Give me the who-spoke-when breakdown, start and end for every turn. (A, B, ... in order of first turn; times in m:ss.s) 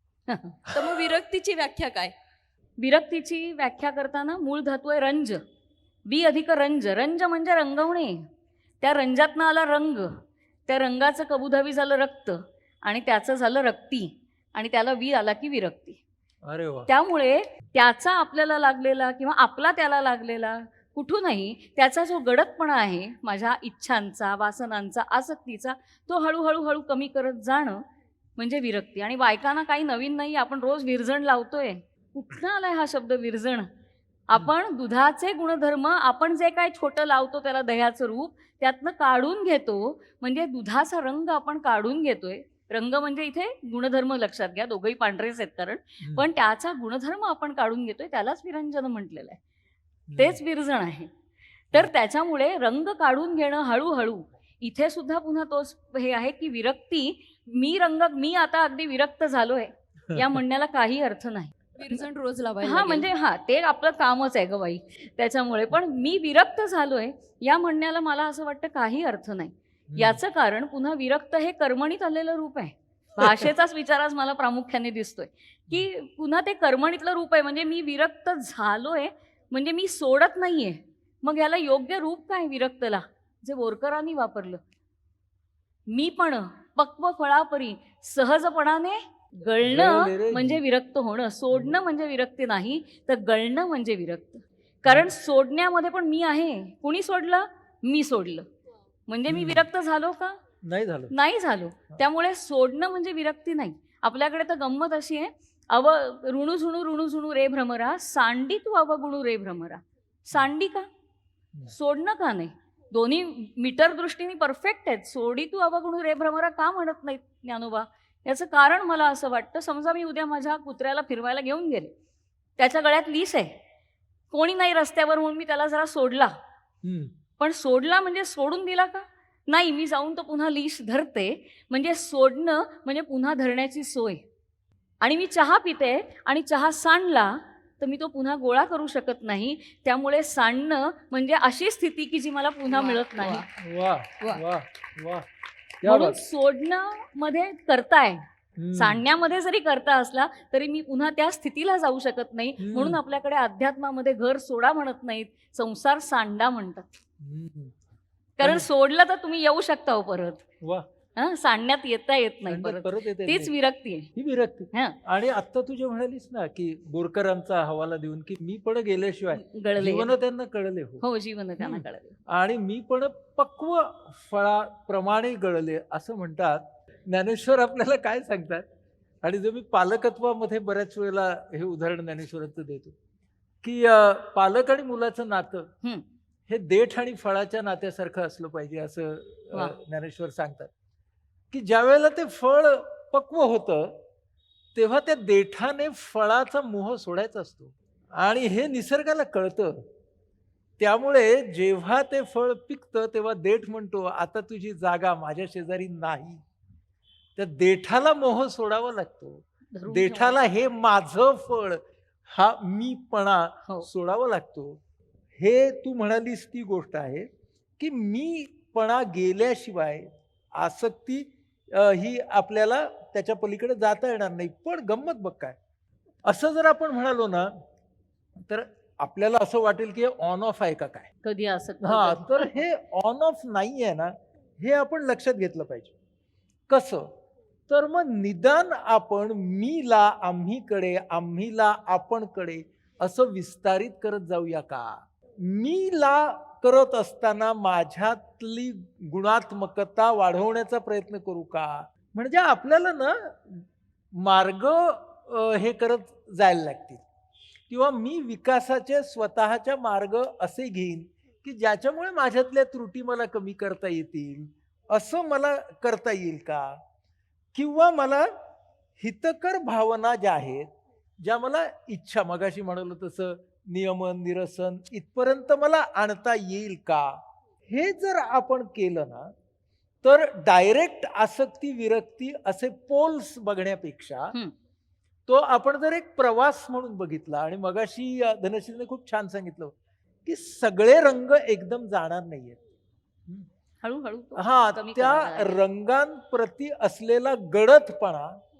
0:00.3-0:00.8 A
0:00.7-0:02.1 B
0:02.8-0:05.4 A
0:06.1-0:08.2 A
0:08.8-0:10.1 A
0:10.7-0:16.0 A
0:16.5-0:16.9 C
0:16.9-0:27.8 A
0:28.4-0:33.7 A
0:34.3-0:49.4 A
0:46.0-0:46.3 C
0:50.1-0:50.4 C
0:50.2-0:51.1 A
0:51.7-1:02.0 A
1:00.1-1:00.4 C
1:01.8-1:03.1 B
1:02.6-1:24.6 A
1:09.9-1:10.2 C
1:13.2-1:13.5 C
1:25.9-1:38.5 A
1:29.6-1:30.6 C
1:39.1-1:40.4 A
1:39.3-1:39.7 C
1:40.6-1:41.1 C
1:41.1-1:50.9 A
1:51.7-2:01.9 A
2:02.6-2:03.5 A
2:04.3-2:06.3 A
2:06.8-2:07.1 C
2:07.4-2:14.2 A
2:15.0-2:23.5 A
2:22.7-2:23.5 B
2:23.6-2:25.3 C
2:25.8-2:26.2 C
2:25.8-2:28.2 A
2:28.6-2:29.0 C
2:28.8-2:36.9 A
2:32.6-2:33.0 C
2:37.2-2:37.7 C
2:38.4-2:40.4 A
2:38.4-2:38.7 C
2:41.2-2:44.1 A
2:42.5-2:43.5 C
2:44.2-2:51.0 C
2:49.3-2:50.1 A
2:51.0-2:52.2 A
2:51.6-2:58.6 C
2:59.2-3:03.0 C
3:03.6-3:05.7 C
3:06.5-3:10.7 C
3:11.5-3:14.0 C
3:14.8-3:19.8 C
3:20.8-3:26.4 C
3:27.4-3:34.8 C
3:29.7-3:30.4 A
3:35.4-3:37.3 C
3:37.8-3:45.6 C
3:46.3-3:47.5 C
3:48.4-3:51.1 C
3:51.2-3:52.5 A
3:51.8-3:55.9 C
3:56.7-3:57.1 C
3:57.7-4:13.7 C
4:14.2-4:17.0 C
4:17.7-4:26.8 C
4:27.5-4:28.3 C
4:29.0-4:30.7 C
4:31.2-4:39.3 C
4:40.0-4:44.4 C
4:45.3-4:52.6 C
4:53.8-4:55.6 A
4:54.4-4:58.4 C